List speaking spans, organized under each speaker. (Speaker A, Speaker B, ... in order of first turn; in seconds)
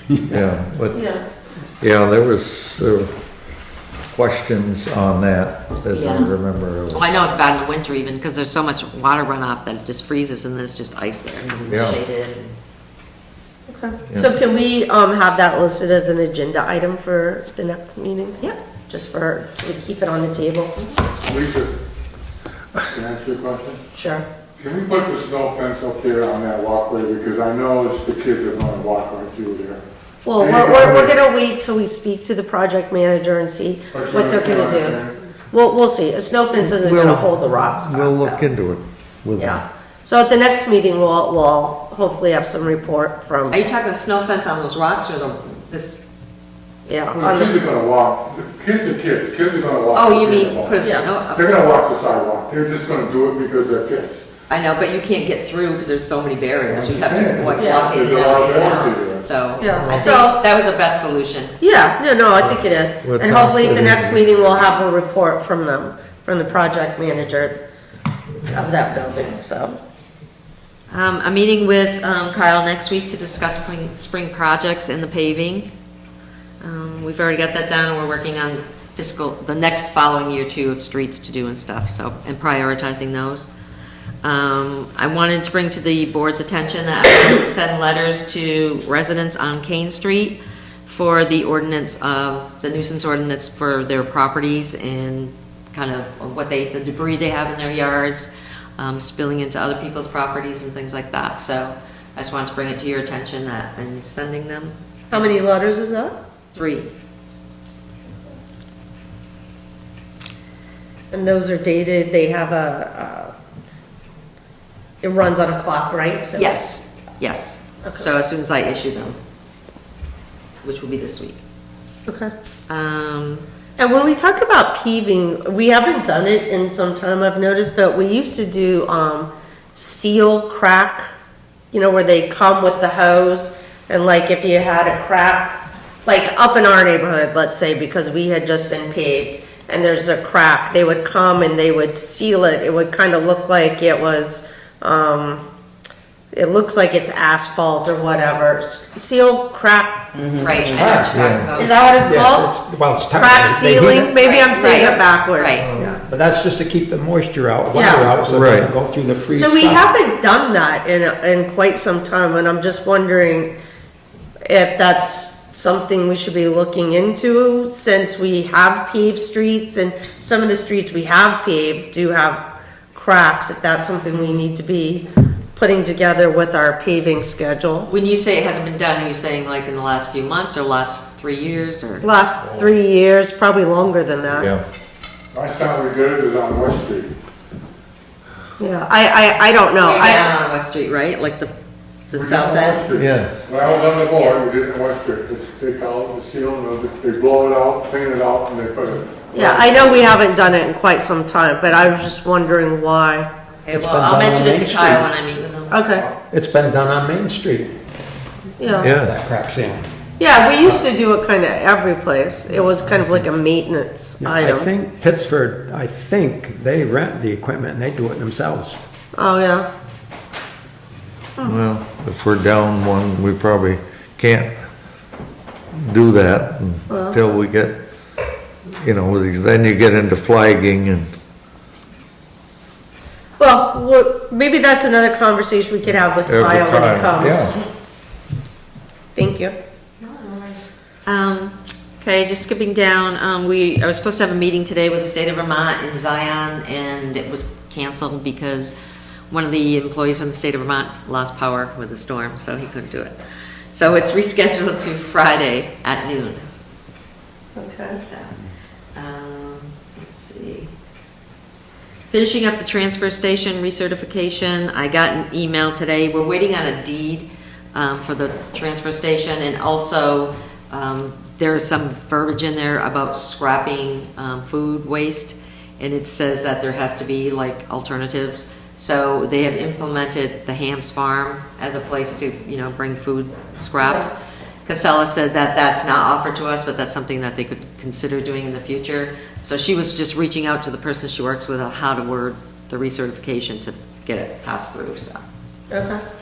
Speaker A: 0.3-1.0, 1.8-3.1, 4.1-7.1, 11.7-12.0, 36.6-39.6, 59.7-60.1, 62.4-64.3, 151.1-151.5, 155.6-155.9, 158.3-158.7, 184.3-184.6, 192.9-193.4, 208.8-209.2, 221.4-224.6, 225.7-227.8, 228.8-231.1, 236.2-237.6
Speaker B: 0.9-1.2, 13.7-20.7, 23.9-24.2, 30.2-35.0, 35.5-38.4, 39.4-43.6, 46.9-47.6, 50.8-51.0, 57.6-57.9, 59.6-60.4, 61.6-67.6, 68.5-69.8, 105.1-106.2, 111.1-113.3, 115.0-116.6, 122.1-122.3, 123.8-131.1, 131.7-145.4, 146.3-150.1, 150.8-152.5, 153.1-156.0, 157.7-158.1, 159.3-163.5, 164.5-177.9, 182.0-184.5, 188.6-190.3, 199.3-203.3, 205.7-206.1, 208.6-208.9, 210.2-214.7, 219.1-219.7, 226.9-227.2, 233.4-237.5, 239.1-239.5, 257.6-258.0, 283.8-284.1, 295.7-296.0
Speaker C: 5.9-6.3, 6.9-12.5, 43.5-46.0, 49.9-51.6, 54.5-61.6, 70.9-75.7, 76.6-83.5, 84.2-105.3, 106.5-106.9, 116.4-119.2, 120.6-121.4, 122.7-123.4, 150.4-151.8, 154.2-155.7, 177.9-182.1, 189.8-191.5, 192.1-192.9, 193.6-194.4, 203.6-205.8, 240.0-248.7, 249.3-253.2, 253.7-256.4, 257.9-258.4, 258.9-260.7, 262.1-295.2
Speaker D: 21.2-21.7, 22.8-23.8, 24.6-29.8, 30.4-31.1, 33.9-35.2, 47.1-54.2, 56.7-59.2, 185.3-187.1, 192.1-200.1
Speaker E: 150.1-151.3, 152.0-154.2, 155.8-159.9, 203.7-205.1, 206.2-207.8, 208.8-209.9, 213.0-213.2, 214.2-218.9